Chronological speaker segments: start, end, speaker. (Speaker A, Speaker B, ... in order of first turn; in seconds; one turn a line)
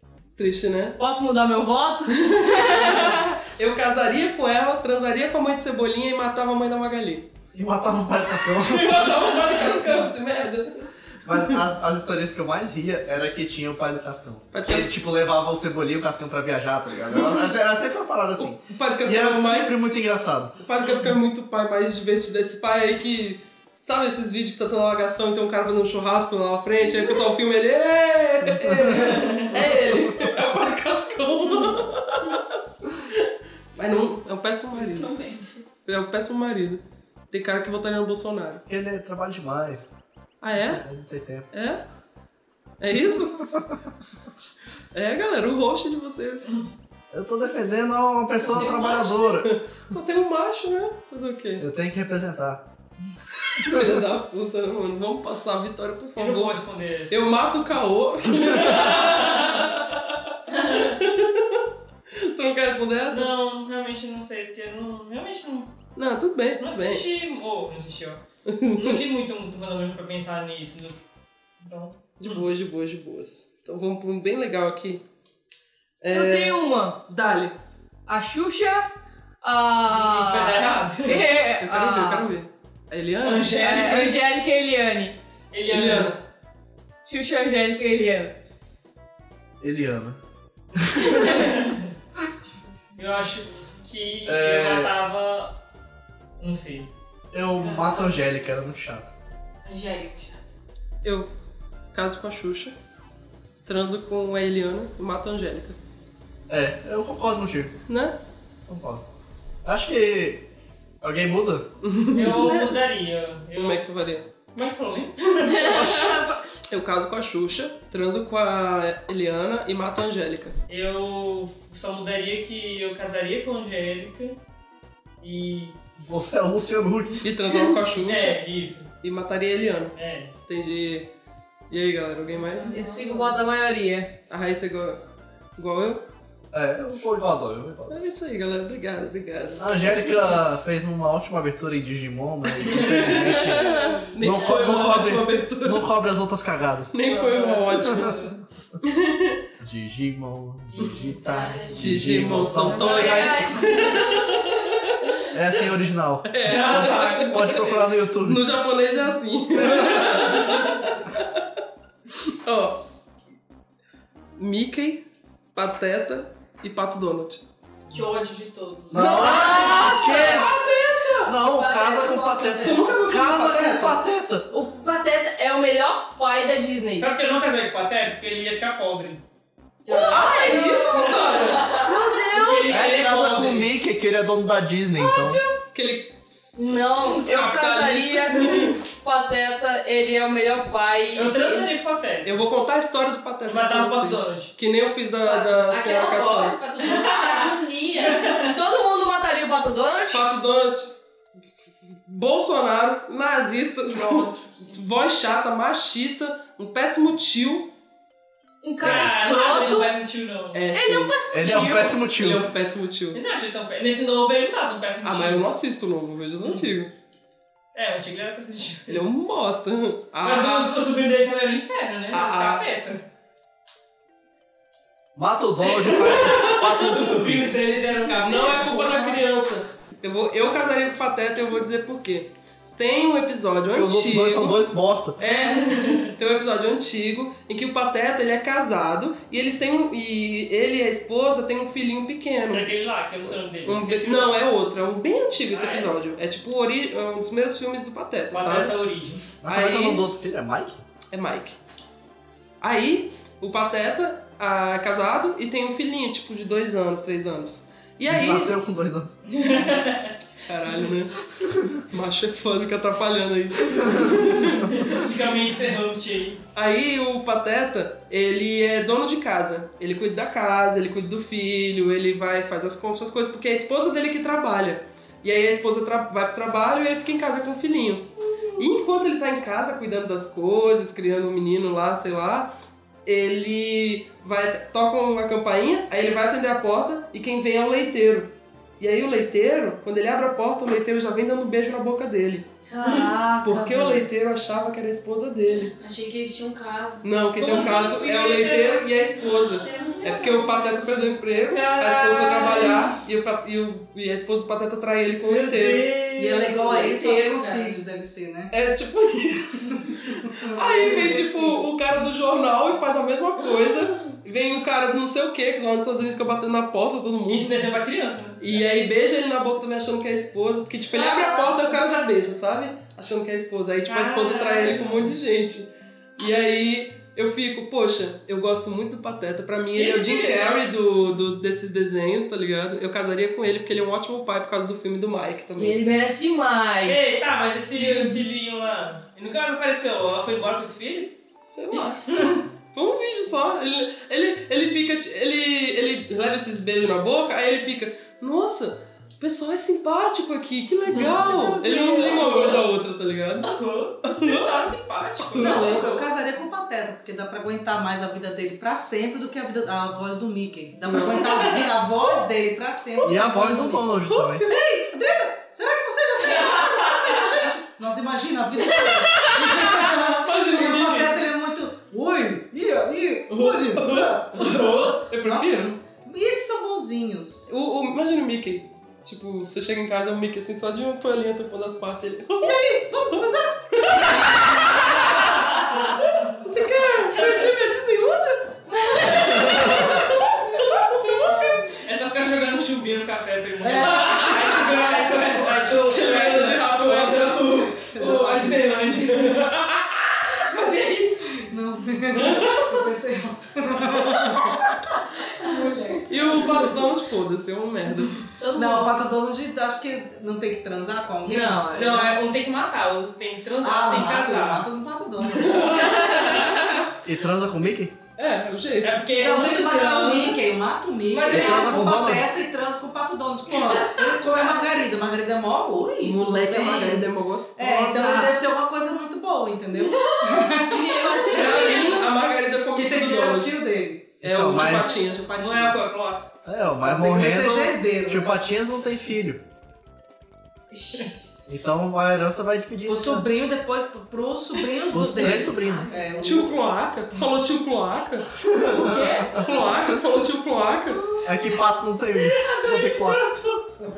Speaker A: 0.4-1.0
Speaker B: 1.0-3.3
Speaker A: 2.2-7.3
Speaker C: 7.5-9.7
Speaker A: 8.5-11.6
Speaker C: 11.3-20.6
Speaker A: 14.5-14.9
Speaker A: 18.4-19.8
Speaker A: 20.6-32.5
Speaker C: 28.4-29.2
Speaker D: 28.9-29.5
Speaker A: 33.1-35.1
Speaker E: 34.7-35.6
Speaker A: 35.8-38.6
Speaker C: 38.7-40.0
Speaker A: 40.4-40.9
Speaker C: 40.5-41.5
Speaker A: 41.5-41.8
Speaker A: 42.8-43.5
Speaker A: 44.9-46.6
Speaker C: 47.1-49.5
Speaker E: 48.4-49.3
Speaker A: 49.4-51.6
Speaker C: 51.6-52.6
Speaker A: 53.4-63.3
Speaker C: 53.6-53.9
Speaker D: 56.2-57.2
Speaker D: 58.9-59.4
Speaker D: 60.5-61.0
Speaker D: 63.1-65.7
Speaker A: 66.0-67.1
Speaker D: 66.6-68.2
Speaker A: 68.5-69.0
Speaker D: 68.7-71.0
Speaker D: 71.6-72.4
Speaker A: 72.2-75.0
Speaker A: 76.0-77.5
Speaker B: 76.1-77.0
Speaker B: 78.1-78.9
Speaker B: 79.4-82.3
Speaker D: 79.9-81.3
Speaker A: 81.6-83.5
Speaker D: 83.2-84.2
Speaker B: 83.5-85.2
Speaker D: 85.5-86.2
Speaker A: 85.7-86.2
Speaker B: 87.0-88.3
Speaker C: 89.6-90.2
Speaker C: 90.8-91.2
Speaker D: 91.0-91.9
Speaker D: 93.0-95.5
Speaker C: 94.3-94.9
Speaker D: 96.4-96.9
Speaker C: 97.3-99.1
Speaker E: 97.6-98.2
Speaker E: 99.6-100.5
Speaker A: 101.0-101.3
Speaker A: 101.9-102.7
Speaker A: 103.7-105.8
Speaker C: 106.5-107.8
Speaker A: 107.9-108.2
Speaker C: 108.7-109.0
Speaker C: 109.6-110.4
Speaker C: 111.0-111.7
Speaker A: 111.8-112.4
Speaker D: 112.1-113.8
Speaker B: 112.3-112.8
Speaker A: 113.5-114.3
Speaker D: 114.5-115.9
Speaker B: 115.5-116.4
Speaker A: 115.6-120.6
Speaker D: 120.7-124.4
Speaker D: 125.2-125.8
Speaker C: 126.0-127.3
Speaker A: 127.2-128.4
Speaker D: 128.0-128.9
Speaker A: 129.0-129.9
Speaker D: 129.9-130.3
Speaker A: 130.5-131.1
Speaker A: 131.7-132.7
Speaker E: 132.3-133.4
Speaker B: 132.7-134.1
Speaker A: 134.3-135.0
Speaker A: 135.6-136.1
Speaker C: 136.5-138.0
Speaker A: 137.9-140.4
Speaker C: 139.6-147.0
Speaker A: 142.6-143.6
Speaker B: 143.2-144.0
Speaker E: 143.3-145.1
Speaker A: 144.1-145.9
Speaker A: 146.9-148.2
Speaker E: 147.0-148.4
Speaker C: 147.7-148.2
Speaker A: 148.8-149.4
Speaker C: 149.6-153.7
Speaker E: 150.7-154.0
Speaker A: 151.7-155.2
Speaker B: 152.7-153.9
Speaker C: 155.3-158.5
Speaker A: 156.3-161.4
Speaker D: 156.4-157.7
Speaker A: 162.3-162.8
Speaker A: 164.4-167.4
Speaker E: 167.9-169.7
Speaker C: 168.9-170.5
Speaker A: 168.9-171.4
Speaker B: 169.0-170.4
Speaker C: 171.3-174.5
Speaker E: 171.3-173.2
Speaker A: 172.6-174.0
Speaker B: 174.5-177.1
Speaker D: 177.0-179.2
Speaker E: 179.9-182.1
Speaker B: 179.9-183.0
Speaker A: 180.1-181.8
Speaker D: 182.3-183.7
Speaker C: 182.7-185.4
Speaker A: 185.0-186.2
Speaker B: 186.6-191.7
Speaker A: 187.2-188.8
Speaker D: 191.1-192.3
Speaker A: 192.2-196.6
Speaker D: 193.5-194.5
Speaker E: 195.2-198.3
Speaker D: 196.9-198.6
Speaker B: 198.4-200.2
Speaker A: 200.1-201.0
Speaker A: 202.1-207.7
Speaker E: 203.9-204.8
Speaker B: 208.6-209.9
Speaker D: 208.8-210.7
Speaker A: 210.5-213.2
Speaker B: 210.7-212.0
Speaker C: 211.3-212.5
Speaker D: 213.1-215.5
Speaker A: 215.0-216.9
Speaker D: 217.7-219.1
Speaker A: 218.9-220.8
Speaker D: 220.2-223.0
Speaker A: 222.1-222.7
Speaker C: 225.2-227.5
Speaker D: 225.6-229.2
Speaker A: 228.1-234.6
Speaker C: 233.7-235.2
Speaker A: 235.2-242.7
Speaker D: 235.4-236.1
Speaker D: 242.5-244.4
Speaker A: 243.6-248.8
Speaker D: 245.5-245.9
Speaker D: 248.3-249.2
Speaker C: 249.4-250.8
Speaker A: 249.4-250.1
Speaker A: 251.1-251.6
Speaker A: 252.6-258.6
Speaker C: 258.1-259.4
Speaker D: 259.3-260.1
Speaker A: 260.4-261.2
Speaker A: 261.9-264.8
Speaker C: 263.8-264.1
Speaker D: 264.7-266.4
Speaker A: 266.6-282.5
Speaker A: 283.1-292.5
Speaker B: 292.7-294.1
Speaker D: 292.8-293.1
Speaker A: 293.4-295.7
Speaker E: 295.8-297.1
Speaker A: 297.0-305.9
Speaker D: 297.4-300.4
Speaker E: 299.6-301.2
Speaker D: 301.4-303.0
Speaker D: 305.2-306.6
Speaker F: 306.2-308.5
Speaker E: 306.5-307.8
Speaker A: 308.5-309.9
Speaker F: 310.1-311.7
Speaker A: 310.5-317.5
Speaker D: 317.3-318.6
Speaker A: 318.4-335.8
Speaker B: 320.9-321.7
Speaker D: 323.9-325.2
Speaker D: 329.7-330.7
Speaker B: 335.6-337.2
Speaker D: 336.8-341.1
Speaker A: 341.5-342.0
Speaker D: 342.1-342.4
Speaker A: 342.7-353.5
Speaker D: 350.9-351.2
Speaker B: 351.2-352.3
Speaker D: 351.9-352.6
Speaker D: 353.4-355.9
Speaker A: 354.0-356.0
Speaker F: 355.4-377.5
Speaker A: 360.9-361.2
Speaker D: 361.1-361.7
Speaker A: 363.0-364.7
Speaker C: 363.0-364.5
Speaker D: 366.3-367.2
Speaker A: 369.6-371.2
Speaker A: 373.3-375.8
Speaker A: 377.5-385.4
Speaker F: 382.4-384.4
Speaker D: 385.5-386.0
Speaker A: 386.4-391.7
Speaker D: 387.1-387.5
Speaker C: 389.4-389.7
Speaker D: 391.7-399.6
Speaker F: 393.6-395.4
Speaker A: 393.9-394.7
Speaker A: 395.7-397.5
Speaker F: 397.9-398.8
Speaker A: 399.7-400.0
Speaker D: 400.3-401.4
Speaker F: 401.4-404.6
Speaker A: 402.2-402.6
Speaker E: 405.4-406.1
Speaker A: 406.1-408.2
Speaker B: 408.4-409.0
Speaker F: 408.5-412.1
Speaker B: 411.2-412.1
Speaker D: 411.7-414.7
Speaker F: 413.6-416.2
Speaker A: 415.3-416.6
Speaker C: 417.0-417.9
Speaker A: 418.2-419.0
Speaker D: 418.8-420.4
Speaker F: 419.1-431.7
Speaker D: 421.1-421.9
Speaker C: 421.3-422.3
Speaker D: 423.5-424.2
Speaker A: 426.0-428.4
Speaker B: 430.7-432.1
Speaker E: 430.7-432.0
Speaker A: 431.3-433.6
Speaker F: 432.7-435.9
Speaker A: 434.2-435.3
Speaker C: 434.2-435.0
Speaker D: 435.4-436.3
Speaker C: 436.4-439.4
Speaker F: 436.8-438.3
Speaker E: 440.7-441.1
Speaker C: 441.5-443.3
Speaker F: 442.8-446.6
Speaker C: 444.9-445.9
Speaker A: 446.2-451.1
Speaker C: 448.4-449.4
Speaker C: 451.2-453.2
Speaker D: 452.3-453.7